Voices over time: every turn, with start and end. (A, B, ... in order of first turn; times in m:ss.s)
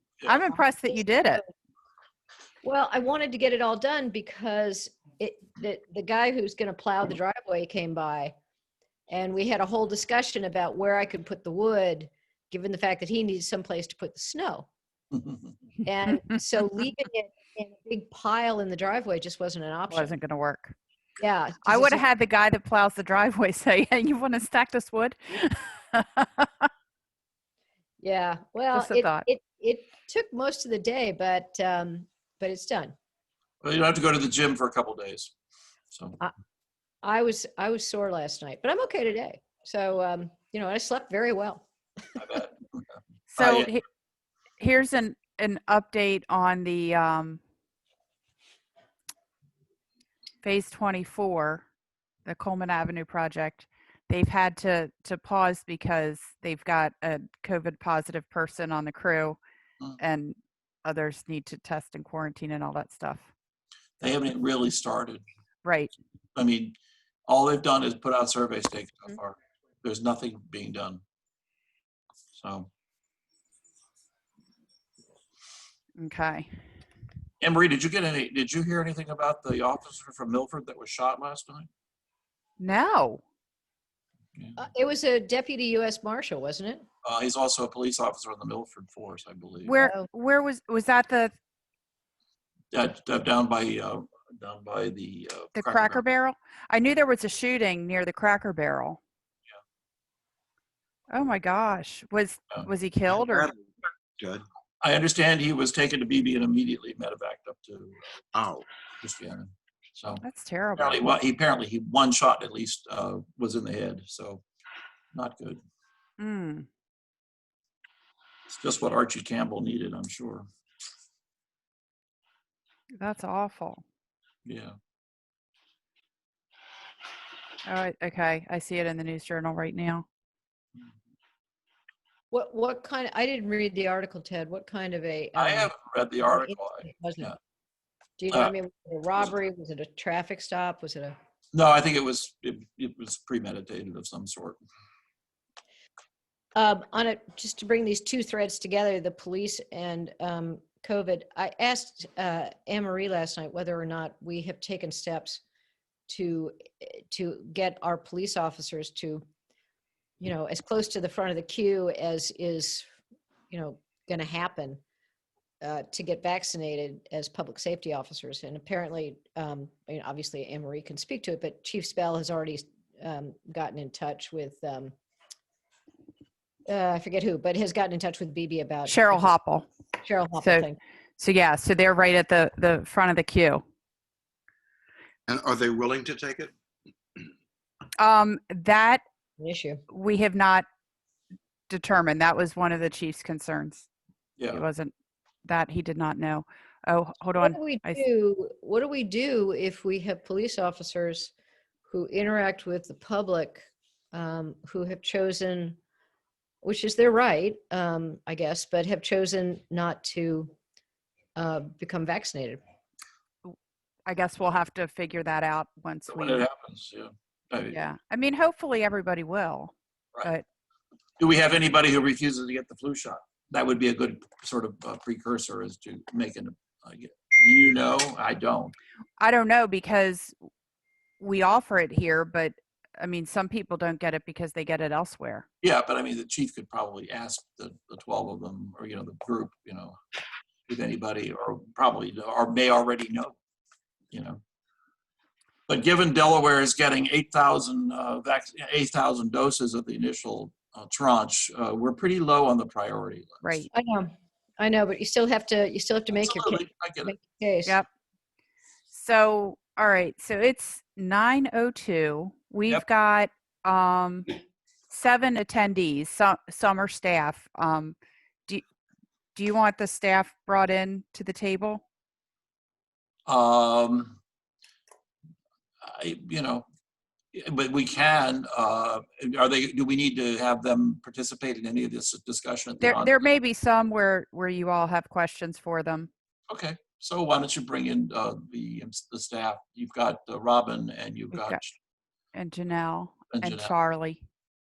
0:00.2-0:01.4 A
0:00.5-0:01.5 B
0:02.6-0:08.3 B
0:09.1-0:14.7 B
0:15.1-0:15.5 C
0:15.8-0:20.2 B
0:19.9-0:20.8 A
0:21.2-0:22.0 B
0:21.6-0:26.5 A
0:28.0-0:32.9 B
0:28.7-0:29.2 A
0:33.6-0:35.3 C
0:35.9-0:36.2 C
0:37.0-0:41.6 B
0:42.2-0:42.8 C
0:43.3-0:43.8 A
0:43.3-0:43.7 C
0:44.6-0:47.4 A
0:50.4-0:51.7 A
0:52.3-0:59.4 A
1:00.0-1:03.3 A
1:04.0-1:05.2 C
1:05.6-1:05.9 A
1:06.4-1:06.8 C
1:07.3-1:11.0 C
1:12.4-1:12.7 C
1:16.0-1:16.5 A
1:17.4-1:21.7 C
1:22.6-1:23.2 A
1:24.6-1:26.9 B
1:27.0-1:29.8 C
1:29.7-1:31.3 A
1:29.7-1:30.1 B
1:32.7-1:36.0 C
1:35.6-1:39.0 A
1:41.1-1:43.5 A
1:43.2-1:43.6 D
1:44.2-1:44.5 D
1:44.8-1:48.0 C
1:48.3-1:48.7 D
1:49.0-1:50.2 C
1:50.2-1:51.0 A
1:50.8-1:54.4 C
1:55.1-1:55.6 C
1:56.2-1:56.7 A
1:58.5-2:00.5 C
2:03.0-2:03.8 A
2:04.4-2:04.7 C
2:07.6-2:10.1 A
2:12.3-2:17.4 B
2:15.4-2:17.4 C
2:18.2-2:21.2 B
2:21.5-2:24.6 C
2:26.6-2:35.4 B
2:36.1-2:39.2 B
2:40.2-2:42.9 B
2:43.5-2:44.8 B
2:45.6-2:54.9 B
2:56.7-2:59.3 B
2:58.9-2:59.7 A
3:00.0-3:00.8 B
3:00.4-3:00.7 A
3:01.2-3:03.6 A
3:05.3-3:06.5 D
3:08.0-3:09.0 A
3:09.4-3:09.8 B
3:09.9-3:10.7 A
3:11.7-3:13.9 A
3:14.4-3:14.6 C
3:14.5-3:14.9 A
3:15.4-3:18.0 A
3:17.4-3:21.3 B
3:21.9-3:25.8 B
3:26.6-3:30.5 B
3:31.4-3:32.6 B
3:34.1-3:36.5 A
3:36.1-3:37.8 C
3:37.7-3:40.4 A
3:41.2-3:48.8 C
3:49.2-3:50.4 A
3:51.2-3:55.5 A
3:55.6-4:00.0 C
4:00.7-4:03.4 C
4:04.1-4:04.4 C
4:05.7-4:13.7 C
4:13.7-4:17.8 B
4:16.2-4:17.1 C
4:18.9-4:24.4 A
4:24.9-4:28.0 A
4:29.4-4:31.8 A
4:33.3-4:34.2 C
4:35.8-4:36.6 C
4:37.3-4:43.2 C
4:42.8-4:46.1 A
4:46.5-4:51.8 C
4:51.3-4:51.6 A
4:52.3-4:54.2 A
4:53.3-4:53.7 C